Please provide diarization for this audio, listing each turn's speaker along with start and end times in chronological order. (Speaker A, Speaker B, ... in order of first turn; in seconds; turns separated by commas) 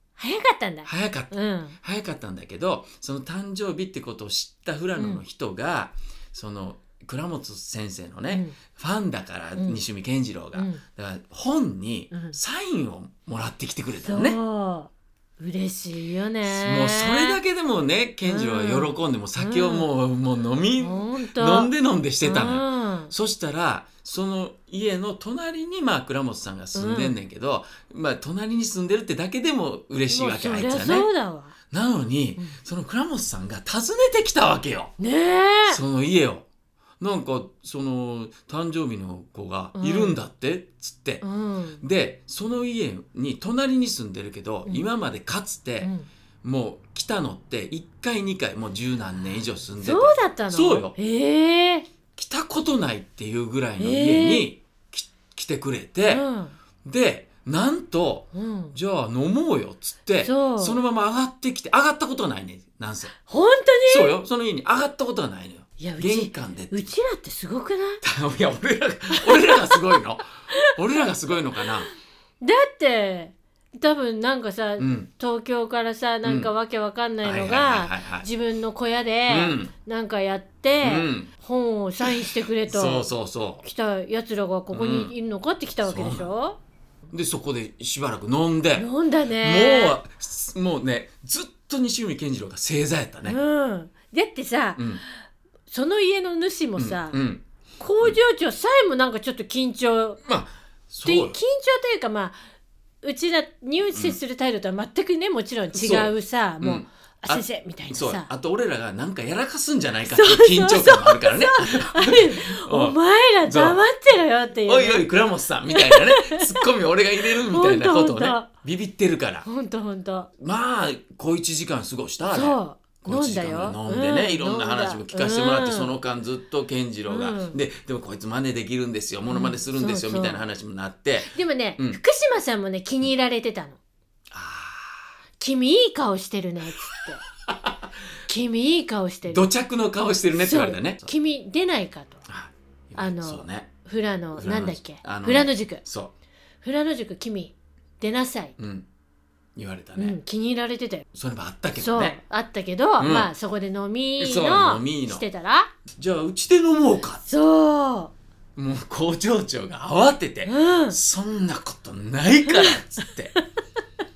Speaker A: 0.2-1.8, Speaker B: 0.9-14.4, Speaker A: 5.0-5.2, Speaker A: 8.3-8.6, Speaker A: 10.5-10.8, Speaker A: 12.1-12.4, Speaker A: 14.0-17.4, Speaker B: 16.4-31.1, Speaker A: 18.2-19.9, Speaker A: 20.8-23.1, Speaker A: 26.8-27.2, Speaker A: 30.1-31.6, Speaker B: 31.7-34.9, Speaker A: 35.0-35.8, Speaker B: 35.7-36.5, Speaker B: 37.0-41.2, Speaker A: 39.8-40.2, Speaker A: 41.2-41.8, Speaker B: 41.8-45.9, Speaker A: 45.8-46.1, Speaker B: 46.4-51.0, Speaker A: 49.8-51.9, Speaker B: 52.2-56.2, Speaker A: 53.8-54.5, Speaker A: 56.1-56.6, Speaker B: 56.8-63.1, Speaker A: 58.3-58.8, Speaker A: 60.2-60.8, Speaker A: 63.3-64.2, Speaker B: 63.9-66.9, Speaker A: 65.8-68.0, Speaker B: 68.0-71.9, Speaker A: 69.2-69.8, Speaker A: 72.4-83.1, Speaker B: 74.8-75.1, Speaker B: 76.2-76.5, Speaker B: 77.2-78.3, Speaker B: 79.3-79.7, Speaker B: 80.8-81.3, Speaker B: 82.0-83.7, Speaker A: 83.6-86.6, Speaker B: 84.7-85.1, Speaker B: 85.8-86.3, Speaker B: 87.1-88.9, Speaker A: 88.8-90.0, Speaker B: 89.4-93.4, Speaker A: 93.2-95.0, Speaker B: 94.8-95.0, Speaker A: 95.7-97.2, Speaker B: 96.8-97.5, Speaker A: 97.8-100.2, Speaker B: 100.2-101.4, Speaker A: 101.0-102.4, Speaker A: 103.0-108.3, Speaker B: 105.7-113.8, Speaker A: 110.1-115.0, Speaker B: 114.7-119.5, Speaker A: 115.7-116.7, Speaker A: 117.2-118.5, Speaker A: 119.5-120.3, Speaker B: 120.4-132.0, Speaker A: 122.3-126.0, Speaker A: 127.1-127.6, Speaker A: 129.3-130.4, Speaker A: 131.3-133.8, Speaker B: 134.3-135.1, Speaker A: 135.4-137.2, Speaker B: 137.5-137.9, Speaker A: 138.3-139.5, Speaker B: 139.3-141.1, Speaker A: 140.3-142.2, Speaker B: 142.3-143.7, Speaker A: 143.0-145.8, Speaker B: 144.4-146.1, Speaker A: 146.6-148.6, Speaker B: 148.6-148.9, Speaker B: 149.6-150.2, Speaker A: 150.0-151.1, Speaker B: 151.1-152.2, Speaker A: 151.8-155.7, Speaker B: 153.0-153.3, Speaker B: 154.2-155.2, Speaker B: 155.9-157.2, Speaker A: 157.2-158.1, Speaker B: 158.6-163.3, Speaker A: 160.5-161.0, Speaker A: 162.5-162.8